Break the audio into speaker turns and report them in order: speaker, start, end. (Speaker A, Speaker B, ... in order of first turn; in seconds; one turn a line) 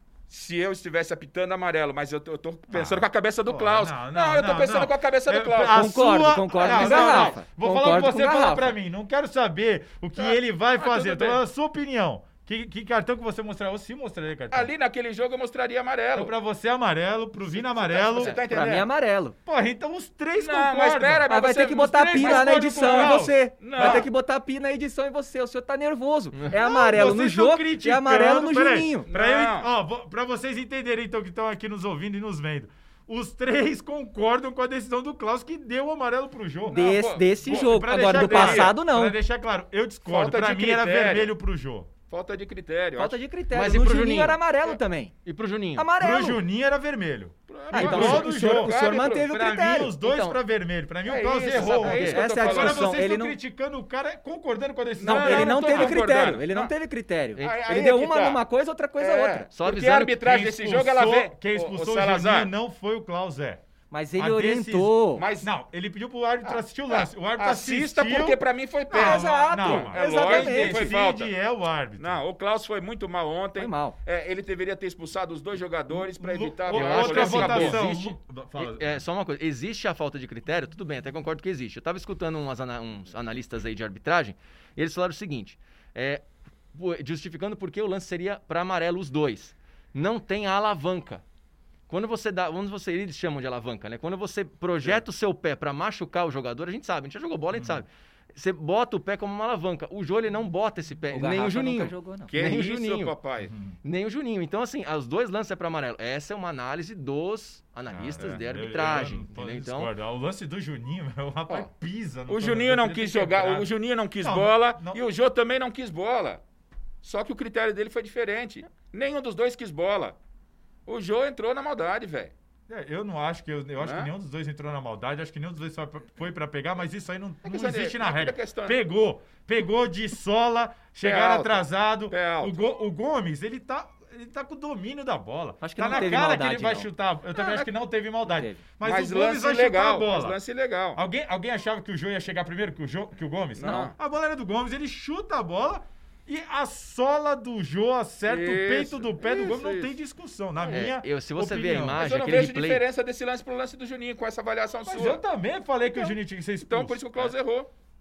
Speaker A: 0.3-7.4
Speaker B: 2.7-14.7
Speaker C: 5.6-8.8
Speaker A: 10.2-11.4
Speaker A: 14.5-16.3
Speaker B: 16.1-18.4
Speaker A: 17.4-18.9
Speaker C: 18.5-19.4
Speaker B: 19.5-21.3
Speaker A: 20.4-24.1
Speaker C: 21.3-29.1
Speaker B: 21.9-24.1
Speaker B: 26.5-41.9
Speaker A: 29.1-29.7
Speaker A: 36.7-38.8
Speaker C: 36.7-39.2
Speaker A: 40.0-41.3
Speaker A: 42.1-43.2
Speaker C: 43.0-45.1
Speaker D: 43.5-44.4
Speaker D: 45.2-45.9
Speaker C: 45.8-46.4
Speaker B: 46.0-56.0
Speaker A: 47.5-49.3
Speaker C: 47.7-50.4
Speaker D: 47.8-48.3
Speaker A: 51.0-52.9
Speaker D: 51.6-52.2
Speaker C: 51.6-53.4
Speaker A: 55.0-56.7
Speaker C: 55.0-59.5
Speaker D: 57.4-57.6
Speaker A: 57.4-58.4
Speaker A: 59.0-62.5
Speaker D: 59.5-60.2
Speaker B: 60.2-63.6
Speaker C: 63.9-65.2
Speaker B: 64.2-72.2
Speaker A: 65.2-65.5
Speaker A: 66.5-71.3
Speaker C: 68.9-71.0
Speaker A: 72.0-77.8
Speaker C: 73.6-74.0
Speaker B: 75.9-79.0
Speaker D: 76.7-91.2
Speaker D: 91.9-103.2
Speaker B: 97.5-97.8
Speaker C: 101.1-102.3
Speaker A: 102.3-103.5
Speaker B: 103.5-103.8
Speaker D: 103.8-109.9
Speaker B: 107.9-115.0
Speaker A: 112.3-116.4
Speaker A: 117.0-120.2
Speaker A: 120.9-122.3
Speaker B: 122.7-140.4
Speaker A: 123.8-124.1
Speaker A: 127.5-128.8
Speaker A: 131.0-132.6
Speaker C: 135.6-136.9
Speaker A: 137.4-137.7
Speaker C: 138.3-138.6
Speaker A: 138.8-141.0
Speaker B: 140.9-152.1
Speaker A: 143.6-143.9
Speaker C: 143.6-143.9
Speaker A: 148.3-149.9
Speaker A: 150.6-150.9
Speaker D: 150.7-152.8
Speaker A: 152.0-155.2
Speaker B: 154.9-157.3
Speaker A: 156.0-157.7